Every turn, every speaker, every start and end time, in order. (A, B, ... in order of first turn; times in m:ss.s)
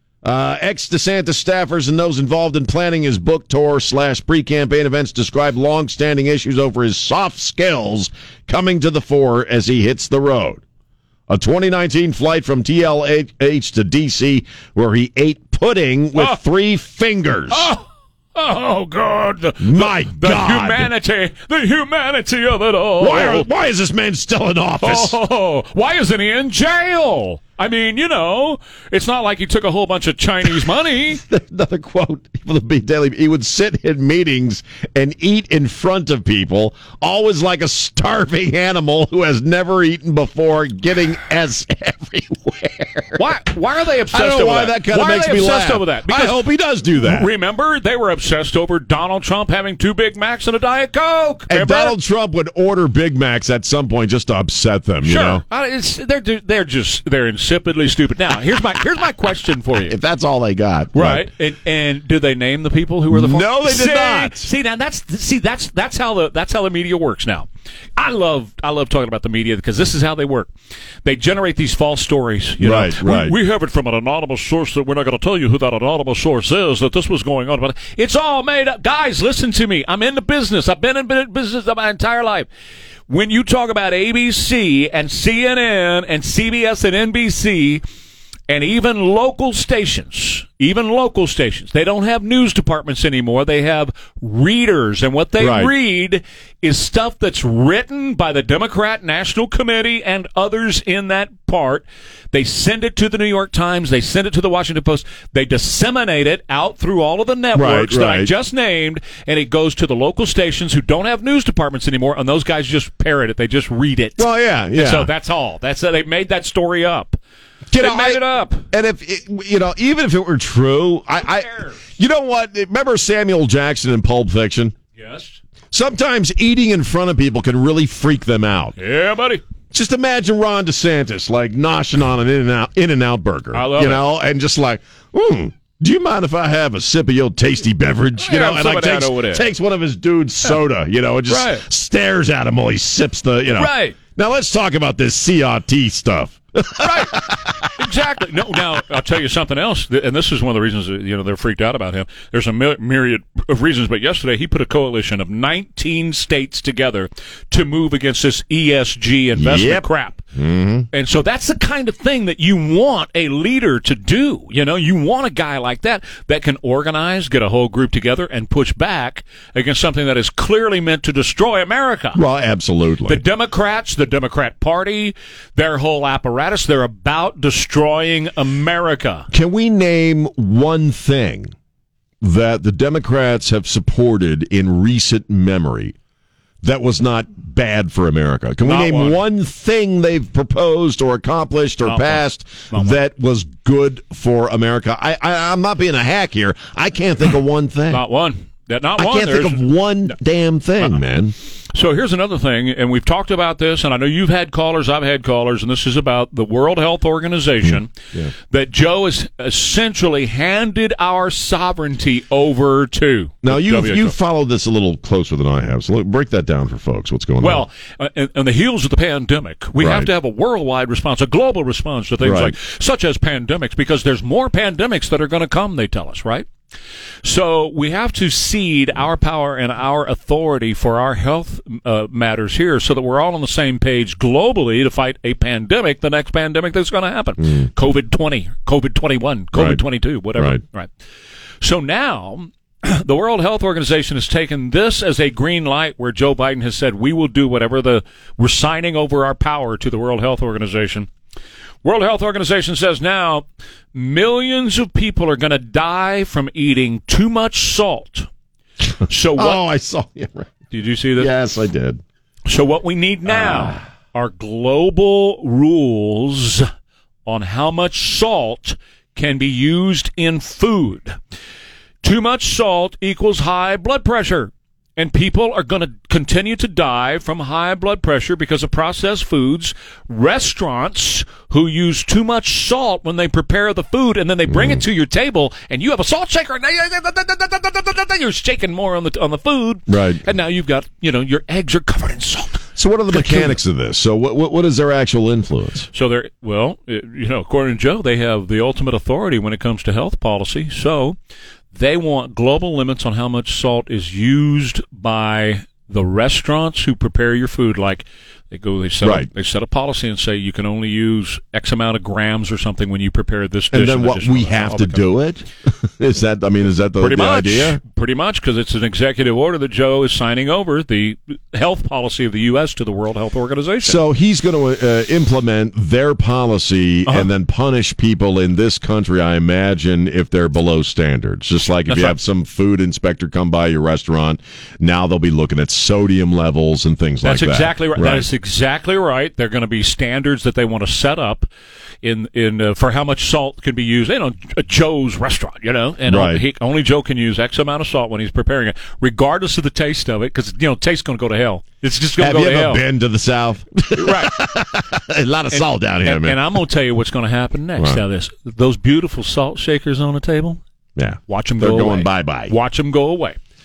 0:00.2-0:10.6 A
0:11.3-0:17.7 A
0:16.2-0:16.4 B
0:17.5-0:23.5 B
0:19.6-0:20.9 A
0:23.0-0:25.2 A
0:24.8-0:31.2 B
0:31.2-0:43.3 A
0:43.2-0:46.4 B
0:44.1-0:47.3 A
0:47.0-0:52.0 B
0:51.5-0:55.4 A
0:55.0-1:00.0 B
0:59.9-1:01.3 A
1:00.9-1:10.5 B
1:03.1-1:04.5 A
1:11.0-1:22.5 B
1:12.6-1:13.4 A
1:23.1-1:27.8 B
1:28.5-1:57.2 B
1:35.4-1:35.7 A
1:47.5-1:48.3 A
1:54.2-1:55.1 A
1:57.7-2:04.8 A
1:57.8-1:58.7 B
2:01.2-2:01.8 B
2:05.0-2:05.4 B
2:05.7-2:08.8 A
2:08.8-2:09.4 B
2:09.7-2:27.7 A
2:13.5-2:14.1 B
2:18.2-2:19.4 B
2:21.3-2:21.6 B
2:23.6-2:24.0 B
2:26.8-2:27.2 B
2:27.8-2:40.2 B
2:39.4-2:40.9 A
2:40.9-2:52.2 B
2:52.1-2:53.2 A
2:53.1-2:59.3 B
2:59.3-3:01.5 A
3:02.2-3:06.0 A
3:06.6-3:18.0 A
3:08.6-3:09.2 B
3:11.8-3:13.0 B
3:17.9-3:19.6 B
3:19.0-3:21.3 A
3:21.7-3:34.2 B
3:27.6-3:28.3 A
3:33.4-3:37.7 A
3:37.4-3:46.5 B
3:39.8-3:40.1 A
3:42.2-3:42.6 A
3:47.2-4:00.9 B
3:57.4-3:57.7 A
3:59.5-3:59.8 A
4:00.4-4:00.6 A
4:01.6-4:11.1 B
4:11.8-4:18.3 B
4:19.1-4:19.6 B
4:19.4-4:20.6 A
4:20.7-4:21.3 B
4:21.2-4:22.0 A
4:22.5-4:26.7 B
4:23.3-4:23.8 A
4:27.3-4:31.2 B
4:32.0-4:53.6 B
4:44.5-4:44.8 A
4:49.9-4:50.2 A
4:52.8-4:55.9 A
4:55.9-5:01.2 B
5:01.7-5:15.1 B
5:09.0-5:09.3 A
5:13.7-5:17.8 A
5:17.0-5:24.0 B
5:23.8-5:38.3 A
5:31.9-5:32.2 B
5:37.2-5:41.5 B
5:42.0-5:52.8 B
5:46.1-5:46.4 A
5:52.2-5:56.4 A
5:54.0-5:54.4 B
5:55.5-6:00.6 B
5:57.8-5:58.0 A
6:01.0-6:02.6 A
6:01.3-6:03.4 B